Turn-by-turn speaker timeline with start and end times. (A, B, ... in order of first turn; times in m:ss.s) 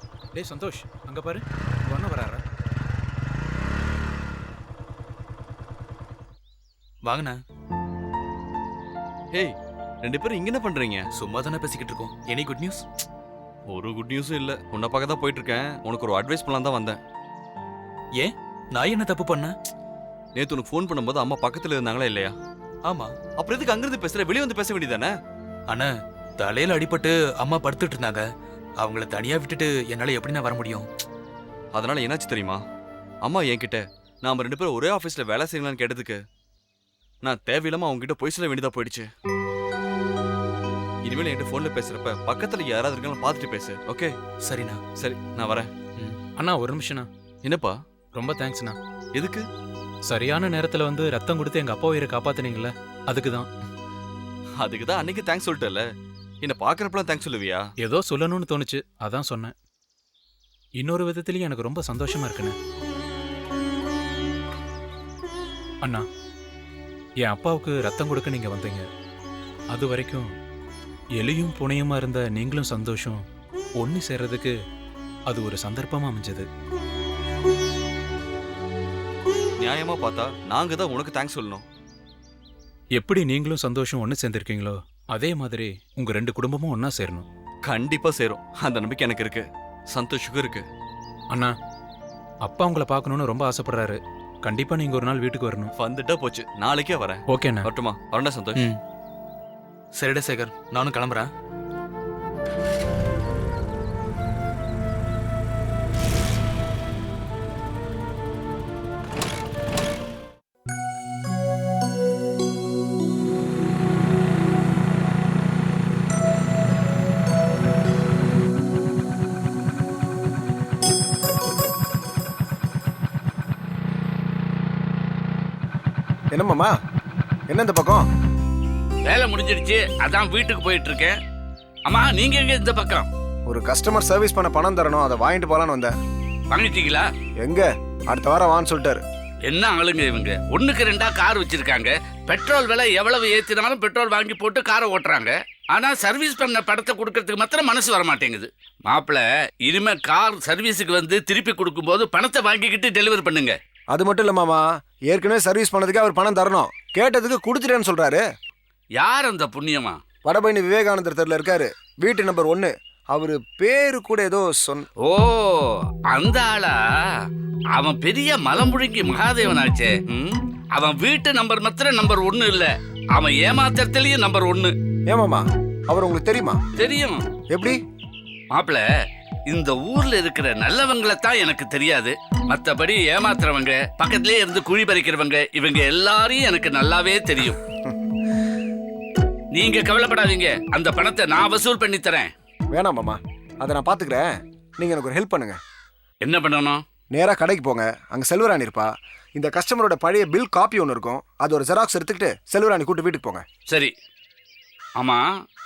0:00.3-0:02.4 A
0:07.0-0:07.4 B
0:09.3-0:11.1 C
0:11.1-0:12.8 B
0:13.7-0:17.0 C
0:18.2-0:19.5 B
0:20.3-0:22.4 C
0:22.9-0:23.2 B
0:23.4-0:25.1 C
0:25.7-0:28.2 B
0:28.8-0:30.9 B
0:31.7-0:32.6 C
0:33.2-0:36.2 C
0:37.2-0:39.1 C
0:41.0-0:44.1 C
0:44.4-0:44.8 B
0:44.9-0:45.7 C
0:46.4-0:47.1 A
0:47.4-0:47.8 C
0:48.1-0:48.8 A
0:49.1-0:49.4 C
0:50.1-0:53.5 A
0:54.6-0:55.8 C
0:56.4-0:57.7 C
0:57.8-0:59.5 A
1:00.8-1:02.5 A
1:07.2-1:08.8 A
1:09.7-1:10.3 A
1:11.2-1:13.2 A
1:13.8-1:14.5 A
1:15.3-1:16.5 A
1:19.6-1:21.6 C
1:23.0-1:27.2 A
1:27.6-1:30.6 C
1:32.4-1:35.7 A
1:35.8-1:38.7 C
1:37.3-1:37.7 A
1:39.9-1:41.3 B
2:06.3-2:06.7 D
2:07.5-2:08.0 D
2:09.1-2:11.2 E
2:11.9-2:13.1 E
2:13.4-2:15.9 D
2:16.5-2:17.0 E
2:17.4-2:19.0 D
2:19.5-2:33.5 E
2:33.9-2:38.2 D
2:39.0-2:40.0 E
2:40.2-2:44.9 D
2:45.0-2:46.8 E
2:47.8-2:54.7 E
2:55.1-2:56.6 D
2:56.8-2:57.2 E
2:57.5-2:57.8 D
2:58.5-2:58.8 E
2:59.5-3:07.6 E
3:09.6-3:12.3 E
3:12.7-3:15.6 D
3:16.2-3:16.8 E
3:17.1-3:23.4 D
3:25.0-3:25.3 E